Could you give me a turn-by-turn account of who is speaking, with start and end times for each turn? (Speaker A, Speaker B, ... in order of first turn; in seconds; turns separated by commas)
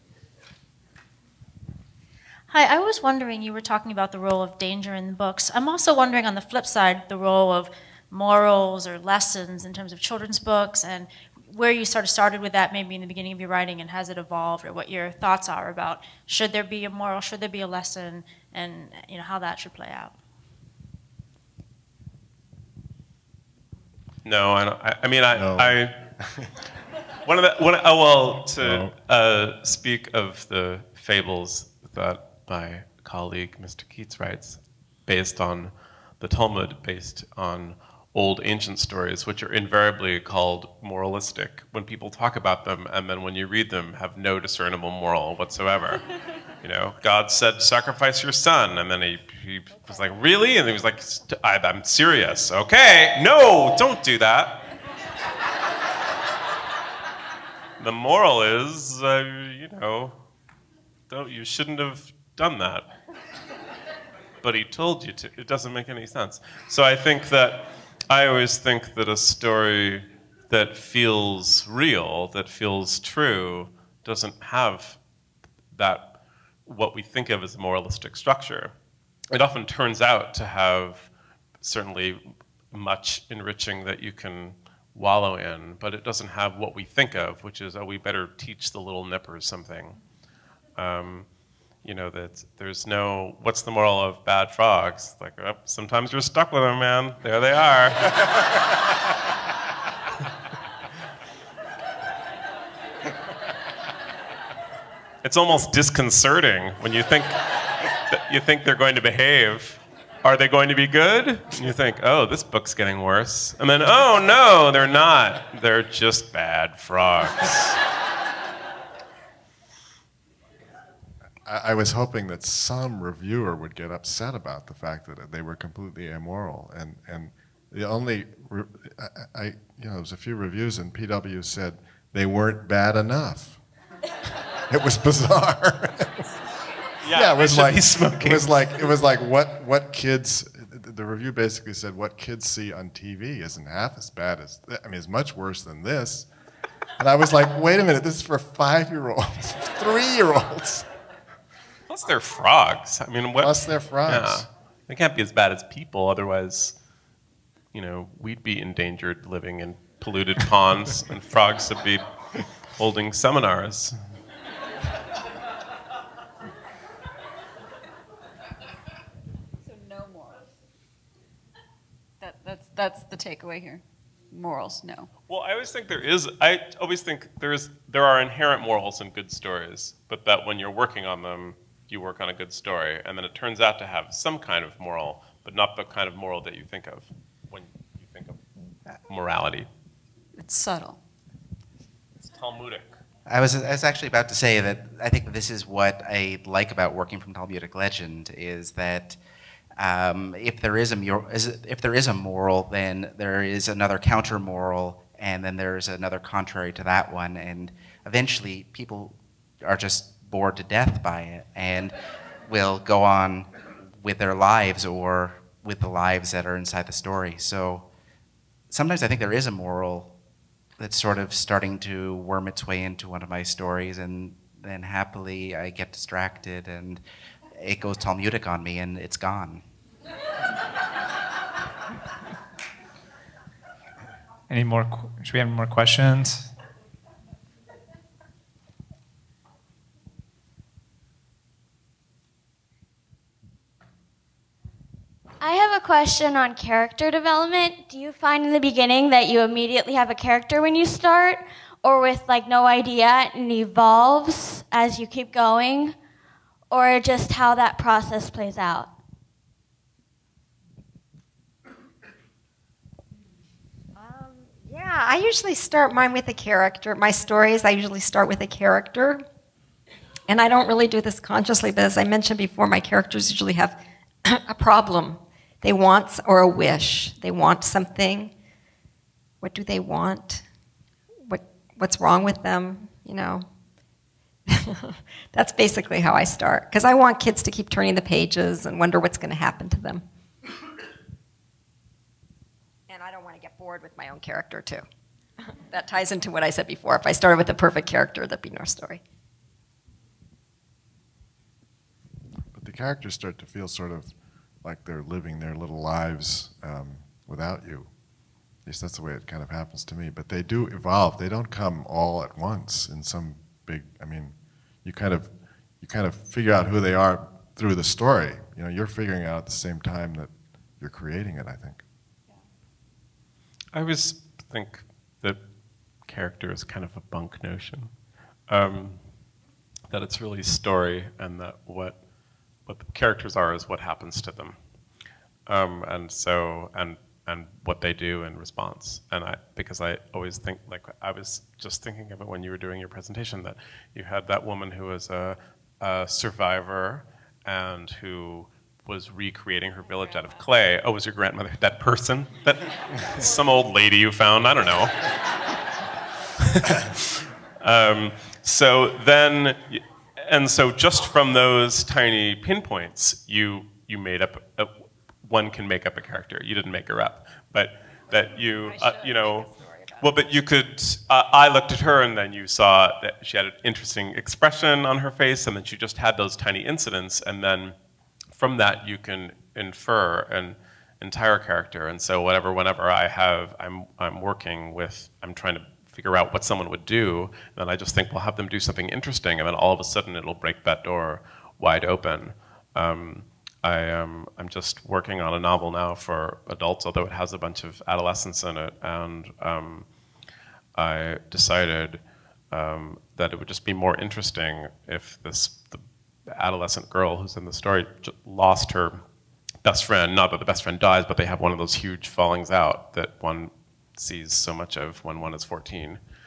Speaker A: 2.5-20.2, Speaker B: 24.2-26.1, Speaker C: 25.3-26.5, Speaker B: 27.2-46.0, Speaker C: 28.6-28.9, Speaker B: 46.6-54.7, Speaker B: 57.8-60.2, Speaker B: 61.1-62.9, Speaker B: 64.4-75.0, Speaker B: 75.7-78.7, Speaker B: 79.3-81.1, Speaker B: 81.6-90.0, Speaker B: 90.8-91.3, Speaker B: 91.8-98.2, Speaker B: 105.2-117.8, Speaker C: 121.4-133.6, Speaker C: 134.7-136.3, Speaker B: 137.0-138.5, Speaker C: 137.1-146.3, Speaker C: 147.0-150.9, Speaker B: 151.9-153.5, Speaker C: 153.4-154.4, Speaker B: 154.1-156.8, Speaker B: 157.7-163.9, Speaker D: 169.6-170.4, Speaker D: 172.2-175.1, Speaker B: 175.3-188.5, Speaker B: 189.0-189.7, Speaker D: 190.4-191.0, Speaker B: 192.2-192.9, Speaker E: 193.2-199.2, Speaker E: 199.8-211.9, Speaker E: 212.4-217.9, Speaker E: 218.7-220.1, Speaker E: 220.8-227.0, Speaker E: 227.5-229.6, Speaker F: 234.5-236.5, Speaker G: 245.4-256.0, Speaker G: 256.7-258.9, Speaker H: 264.0-269.2, Speaker H: 270.3-278.3, Speaker H: 279.4-280.4, Speaker H: 281.2-283.4, Speaker H: 284.5-290.0, Speaker H: 292.9-294.8, Speaker H: 295.5-299.0, Speaker C: 302.5-307.9, Speaker C: 308.6-321.8, Speaker B: 323.7-325.4, Speaker B: 326.0-327.9, Speaker B: 328.5-329.1, Speaker B: 329.9-332.0, Speaker B: 332.6-334.6, Speaker B: 335.5-355.1, Speaker B: 356.4-377.8, Speaker H: 369.4-369.9, Speaker B: 378.3-399.9, Speaker B: 400.8-409.0, Speaker B: 409.6-416.0